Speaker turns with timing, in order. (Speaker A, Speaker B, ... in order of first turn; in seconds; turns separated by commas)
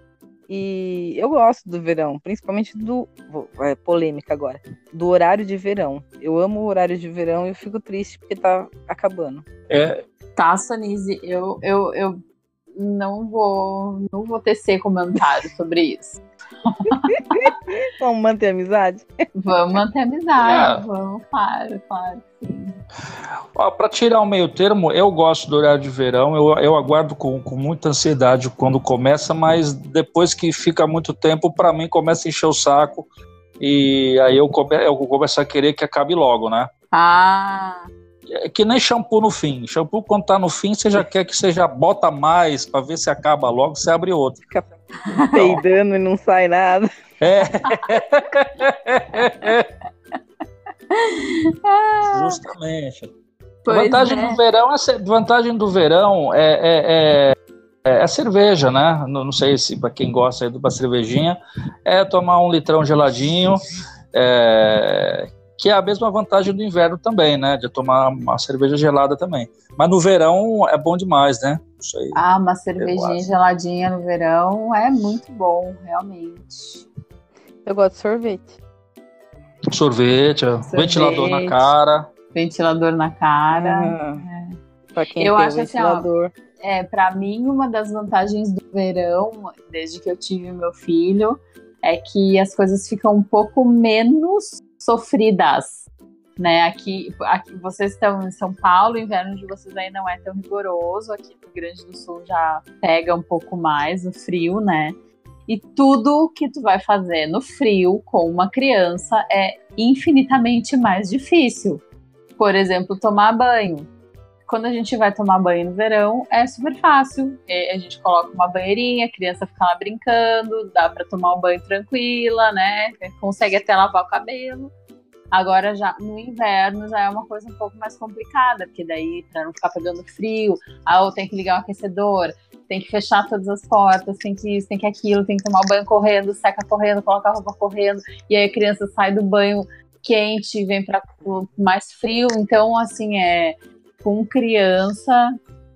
Speaker A: 0.5-9.4, Speaker B: 9.7-10.0, Speaker C: 10.4-12.2, Speaker C: 12.8-17.6, Speaker A: 17.2-19.1, Speaker C: 19.4-22.8, Speaker B: 20.4-20.8, Speaker B: 23.6-33.1, Speaker B: 33.6-36.7, Speaker C: 36.9-37.9, Speaker B: 38.3-44.4, Speaker C: 45.1-45.5, Speaker A: 45.3-46.9, Speaker B: 47.2-49.7, Speaker C: 50.9-52.4, Speaker B: 52.1-53.1, Speaker C: 53.6-54.4, Speaker B: 53.7-63.6, Speaker B: 64.1-72.2, Speaker C: 72.2-76.9, Speaker B: 72.8-73.2, Speaker A: 77.7-78.6, Speaker B: 79.7-82.1, Speaker C: 80.6-81.7, Speaker C: 82.3-84.6, Speaker A: 83.5-84.2, Speaker A: 85.0-86.3, Speaker C: 85.2-86.1, Speaker C: 86.6-105.0, Speaker C: 105.5-111.8, Speaker C: 112.4-113.9, Speaker C: 114.5-124.7, Speaker C: 125.3-145.3